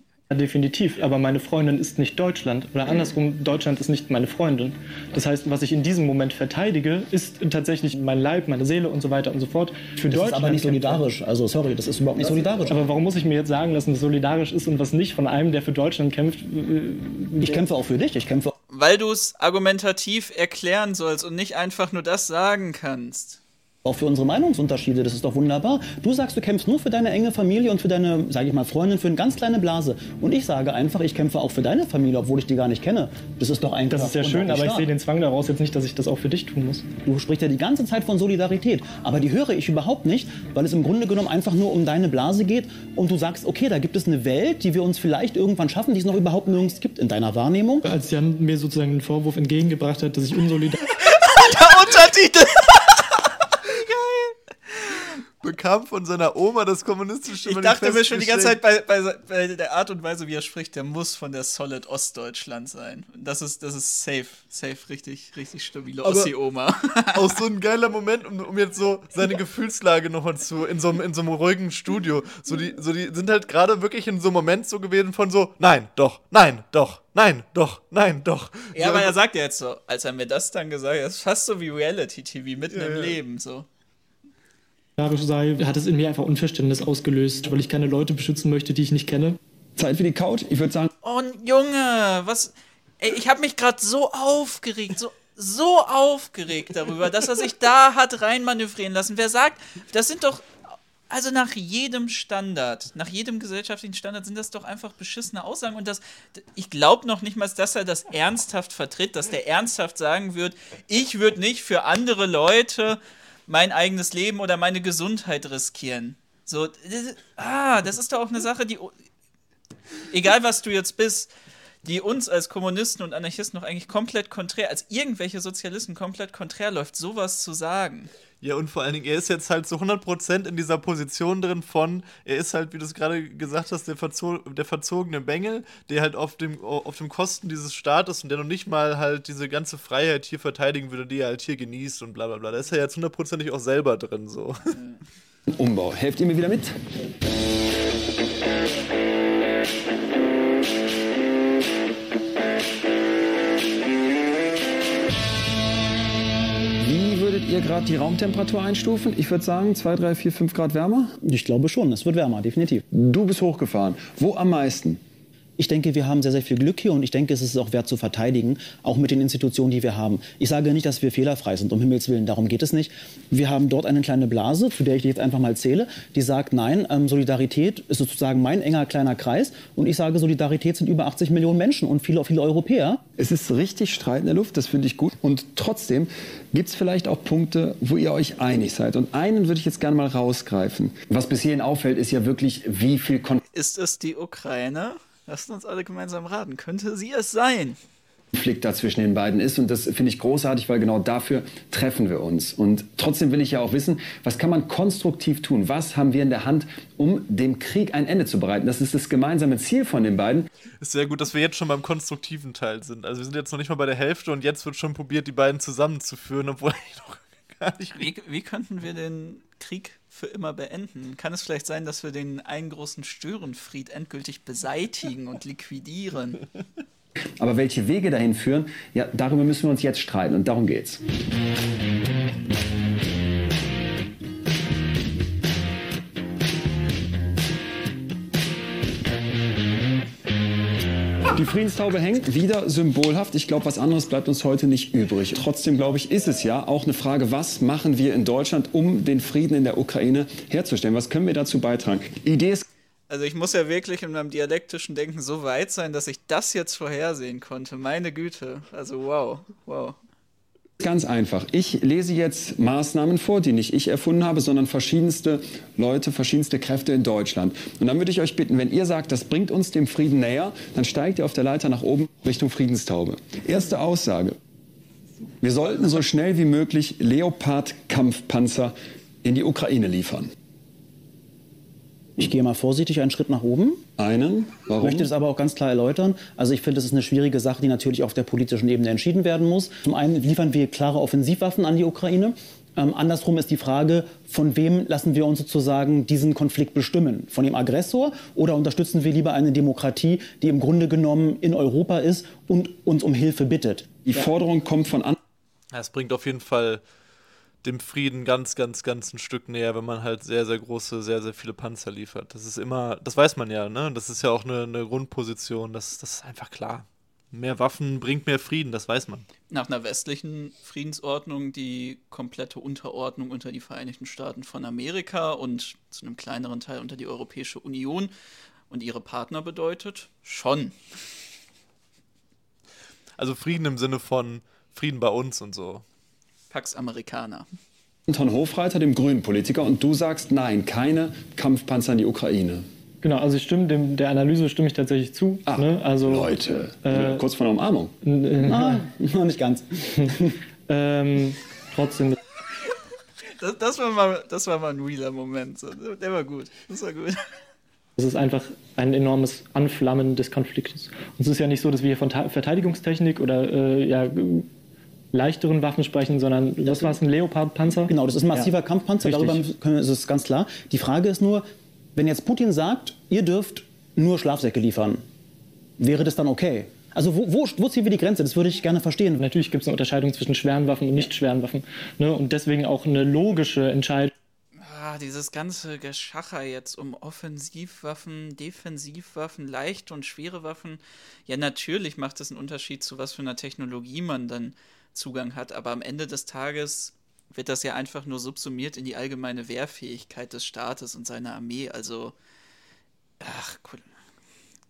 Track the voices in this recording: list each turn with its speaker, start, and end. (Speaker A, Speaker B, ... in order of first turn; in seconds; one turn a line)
Speaker A: 0.3-11.0
Speaker B: 10.1-12.8
Speaker A: 12.7-17.6
Speaker B: 17.4-18.6
Speaker C: 18.7-23.4
Speaker B: 23.9-34.9
Speaker A: 33.9-36.9
Speaker B: 37.0-47.9
Speaker A: 47.9-50.8
Speaker C: 50.9-55.1
Speaker D: 55.4-58.6
Speaker C: 57.4-67.4
Speaker D: 66.0-66.3
Speaker D: 67.1-79.1
Speaker C: 78.8-83.7
Speaker D: 82.7-83.2
Speaker A: 85.0-89.4
Speaker E: 89.8-90.9
Speaker C: 91.0-118.9
Speaker C: 120.1-121.3
Speaker C: 121.8-128.1
Speaker D: 128.4-144.8
Speaker C: 144.8-145.1
Speaker E: 145.5-146.8
Speaker E: 156.8-161.2
Speaker B: 161.2-162.8
Speaker E: 162.9-165.0
Speaker B: 165.6-183.0
Speaker E: 183.2-193.4
Speaker C: 193.5-197.8
Speaker E: 198.3-210.5
Speaker D: 210.8-218.1
Speaker C: 217.9-226.4
Speaker E: 227.4-231.0
Speaker E: 241.3-252.7
Speaker C: 253.1-260.0
Speaker E: 260.8-274.4
Speaker E: 275.4-280.3
Speaker B: 282.2-283.8
Speaker E: 284.0-285.1
Speaker B: 284.8-304.0
Speaker E: 304.1-305.2
Speaker D: 305.7-306.8
Speaker D: 307.6-319.3
Speaker C: 319.5-328.1
Speaker C: 328.7-330.8
Speaker D: 333.2-335.8
Speaker C: 336.5-337.5
Speaker E: 338.1-342.6
Speaker A: 343.0-346.3
Speaker E: 345.5-347.9
Speaker A: 346.8-347.2
Speaker A: 348.0-348.9
Speaker B: 348.4-350.4
Speaker A: 350.7-352.2
Speaker C: 353.3-357.3
Speaker A: 358.0-364.5
Speaker A: 365.1-367.9
Speaker B: 366.7-367.0
Speaker B: 367.9-371.4
Speaker A: 369.0-369.4
Speaker B: 372.0-375.0
Speaker B: 375.8-379.2
Speaker A: 379.2-384.1
Speaker C: 384.6-402.1
Speaker C: 403.2-403.9